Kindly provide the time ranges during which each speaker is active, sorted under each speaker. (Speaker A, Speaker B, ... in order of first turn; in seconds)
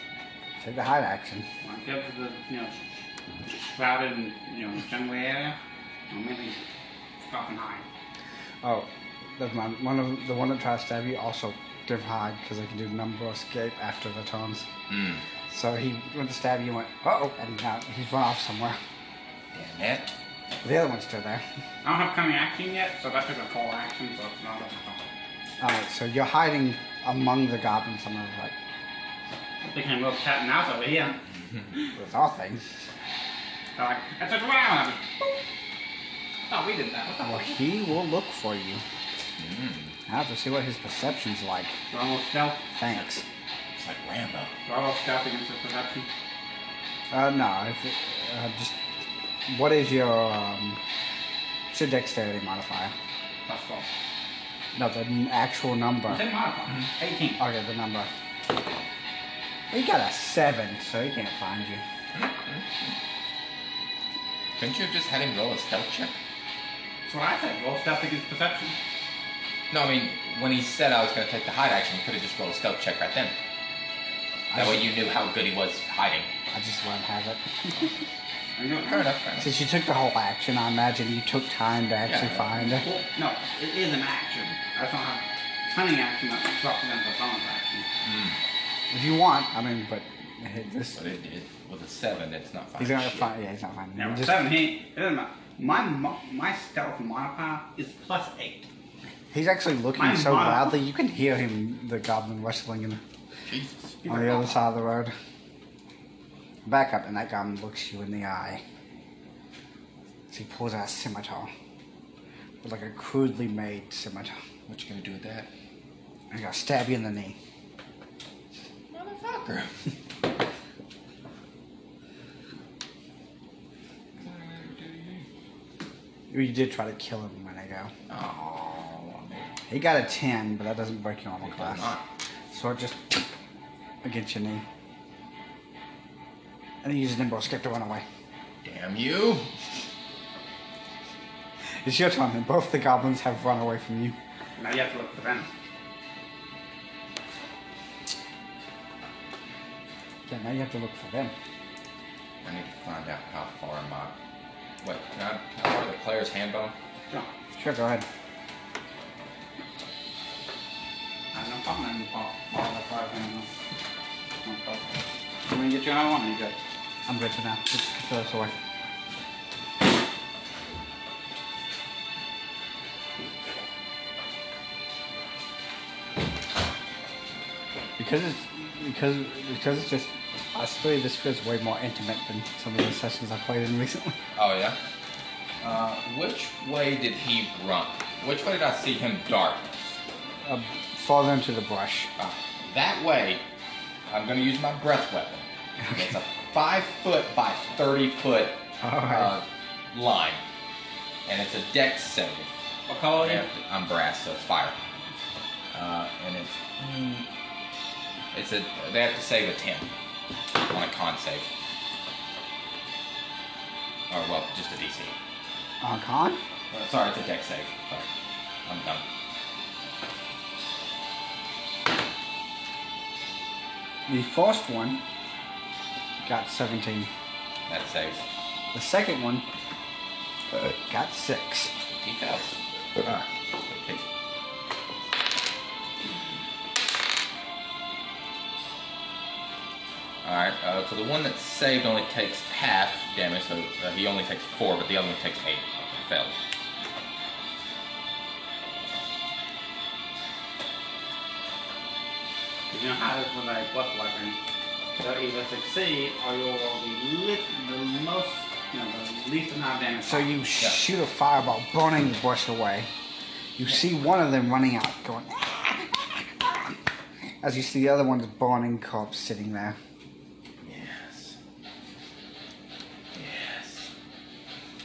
Speaker A: 0.6-1.5, 8.6-14.7, 15.5-18.8, 20.6-21.4, 25.6-28.5, 31.9-32.6, 37.2-38.8, 40.1-41.8, 42.8-43.2, 47.1-48.8, 49.5-50.8, 51.7-52.9, 54.7-56.2, 57.4-58.1, 59.7-61.8, 74.5-74.9, 76.5-77.8, 79.4-82.8, 88.9-91.0, 92.8-94.5, 99.3-103.0, 104.0-105.1, 106.7-108.6, 110.3-111.5, 112.6-114.3, 116.3-117.4, 126.3-127.9, 129.7-131.9, 132.5-133.3, 134.0-134.6, 136.8-138.0, 141.8-144.2, 150.3-151.3, 157.6-158.1, 167.1-168.5, 178.0-184.2, 190.4-192.1, 198.8-199.3, 215.8-216.4, 224.1-225.0, 226.2-227.1, 228.7-229.5, 230.5-231.7, 260.0-262.9, 263.6-266.6, 267.4-269.8
Speaker B: 1.6-2.8, 3.6-5.5, 6.1-6.6, 7.2-7.8, 21.8-25.0, 29.6-31.2, 33.8-35.1, 36.5-37.7, 41.9-42.6, 44.6-46.1, 53.5-53.9, 56.1-57.4, 67.1-68.8, 78.5-79.1, 82.8-87.9, 93.9-98.7, 100.0-100.8, 104.0-104.4, 144.6-145.5, 161.3-163.5, 164.4-164.9, 165.4-166.6, 202.9-203.5, 252.7-254.4, 255.0-260.4
Speaker C: 14.9-15.2, 19.5-20.1, 39.4-39.9, 43.8-44.5, 62.1-62.6, 64.6-66.2, 69.7-73.3, 74.5-76.3, 78.8-79.5, 82.0-82.6, 88.0-88.4, 90.9-93.3, 103.5-104.1, 114.7-115.5, 118.9-119.7, 124.2-125.2, 128.1-129.5, 131.4-132.0, 138.6-139.5, 152.4-154.1, 154.8-156.7, 184.3-184.8, 185.6-189.9, 192.2-193.4, 194.1-200.4, 201.2-202.5, 203.1-204.8, 205.7-207.3, 208.3-209.9, 210.6-211.5, 214.1-215.2, 216.7-218.1, 218.6-219.0, 227.7-228.2, 232.0-234.0, 240.2-246.3, 270.6-271.4, 273.1-273.9